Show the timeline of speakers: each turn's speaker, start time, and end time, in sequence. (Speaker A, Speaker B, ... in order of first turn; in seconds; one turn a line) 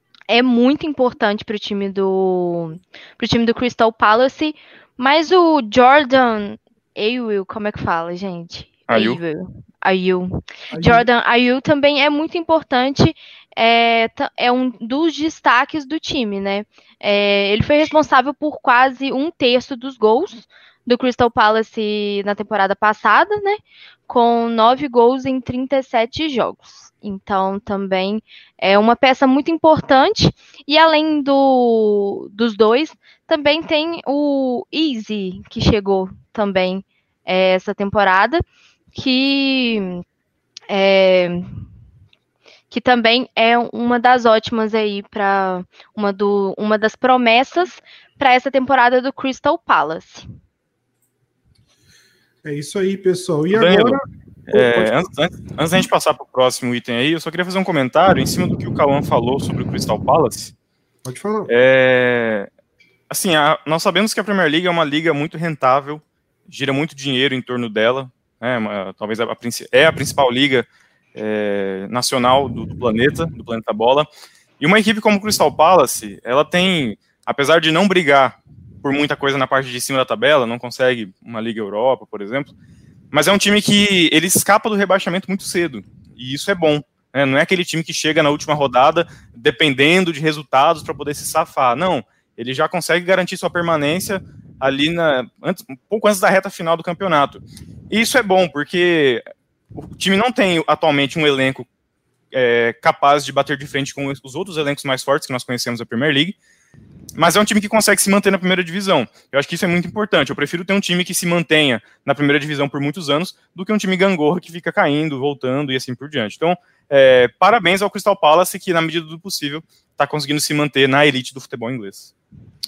Speaker A: 0.3-38.4
Speaker B: 8.9-9.2
Speaker C: 10.8-11.0
Speaker A: 38.9-40.0
Speaker A: 40.7-41.6
Speaker A: 42.7-50.2
Speaker C: 52.4-54.0
Speaker B: 53.5-60.5
Speaker C: 54.5-55.1
Speaker C: 61.0-61.5
Speaker B: 61.5-62.5
Speaker B: 63.1-74.1
Speaker B: 74.6-82.5
Speaker B: 83.1-99.2
Speaker B: 99.8-101.7
Speaker B: 102.3-106.3
Speaker B: 107.2-122.1